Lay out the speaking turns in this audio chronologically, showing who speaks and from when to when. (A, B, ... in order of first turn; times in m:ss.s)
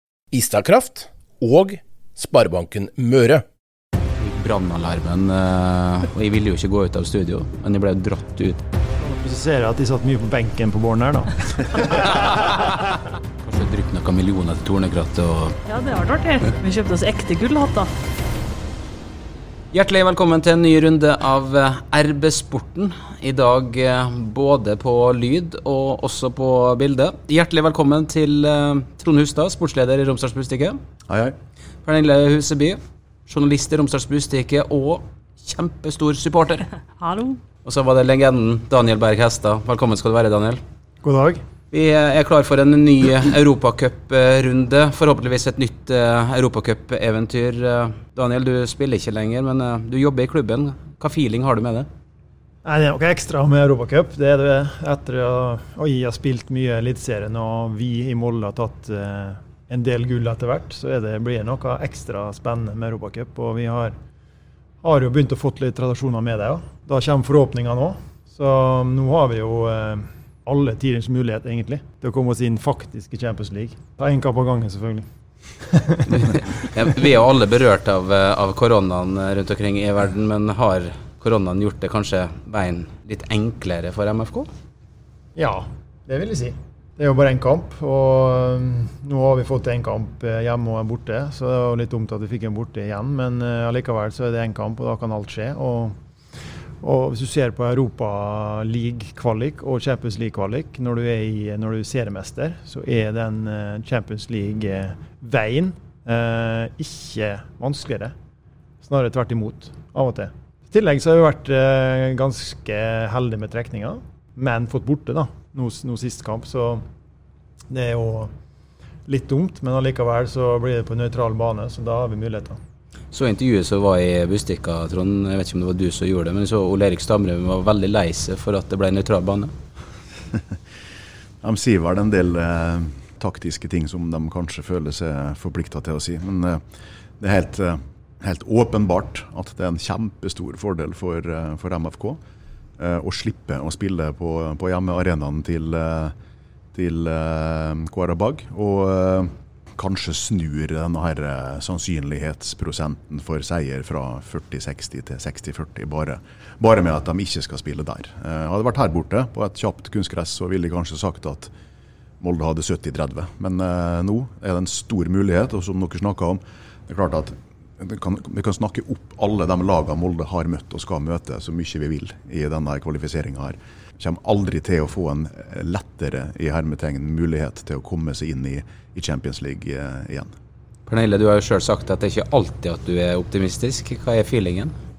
0:00.3-0:03.4 A
0:04.2-0:08.6 B
0:09.0-0:12.0 C
0:13.4-0:15.6 B
0:15.6-0:17.9 D
0:19.7-0:30.8 B
0:31.1-0:31.3 E
0:31.8-0:36.7 B
0:37.0-0:37.4 D
0:37.6-0:40.6 B
0:41.0-0:41.4 C
0:41.7-0:51.9 B
0:52.6-1:04.0 C
1:04.8-1:15.0 C
1:15.6-1:16.7 C
1:16.1-1:24.5 B
1:25.4-1:36.0 C
1:36.8-1:48.1 C
1:48.8-1:56.8 C
1:57.7-1:58.3 C
1:59.1-2:02.6 C
2:03.1-2:09.5 B
2:11.4-2:16.6 E
2:17.2-2:22.2 E
2:22.8-2:26.1 E
2:26.7-2:41.5 E
2:42.2-3:00.3 E
3:00.8-3:04.7 B